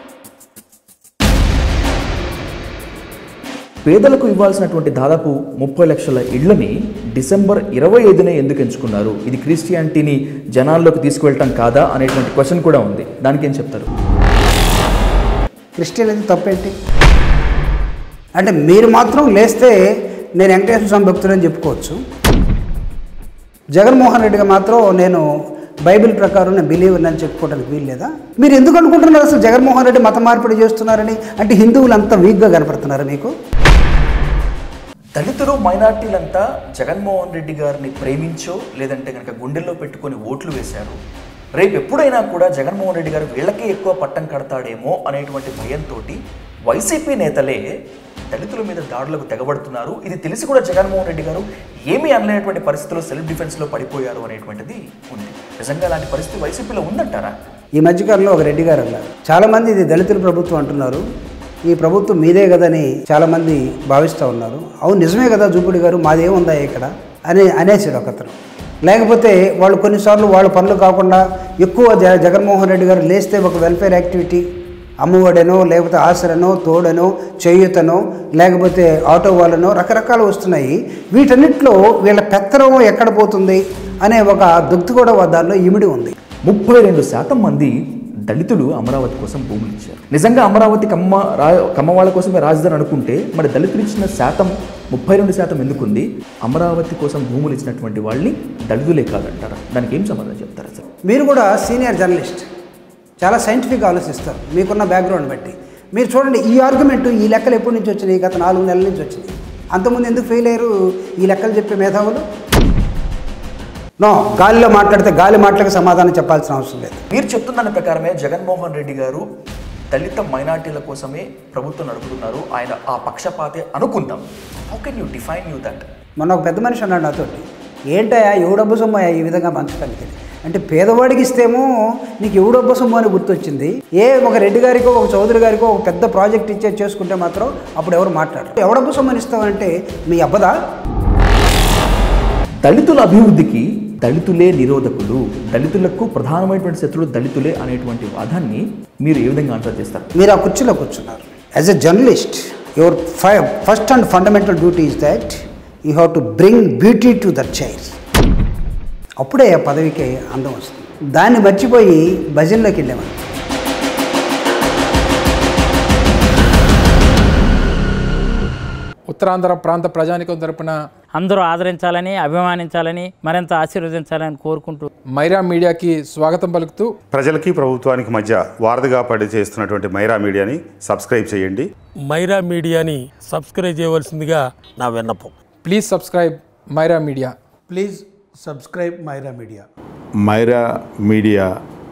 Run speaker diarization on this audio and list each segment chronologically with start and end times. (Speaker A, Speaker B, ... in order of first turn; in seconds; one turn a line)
Speaker A: 3.9-13.9
Speaker B: 15.8-16.8
Speaker B: 18.4-19.8
Speaker B: 20.4-22.0
Speaker B: 23.7-25.2
Speaker B: 25.9-33.3
Speaker A: 35.1-41.0
Speaker A: 41.6-47.6
Speaker A: 48.3-57.3
Speaker B: 57.8-61.0
Speaker B: 61.7-74.4
Speaker B: 75.0-86.1
Speaker A: 86.5-100.8
Speaker B: 101.1-102.5
Speaker B: 103.2-112.2
Speaker B: 114.0-117.0
Speaker A: 117.1-119.2
Speaker A: 119.9-125.8
Speaker B: 126.2-131.7
Speaker B: 132.2-140.5
Speaker A: 142.6-150.1
Speaker B: 150.1-157.9
Speaker B: 159.2-163.2
Speaker C: 169.1-170.8
Speaker D: 171.1-174.9
Speaker C: 175.1-176.9
Speaker E: 177.1-181.7
Speaker F: 182.0-185.3
Speaker C: 185.6-187.3
Speaker B: 187.7-189.6
Speaker E: 190.2-191.6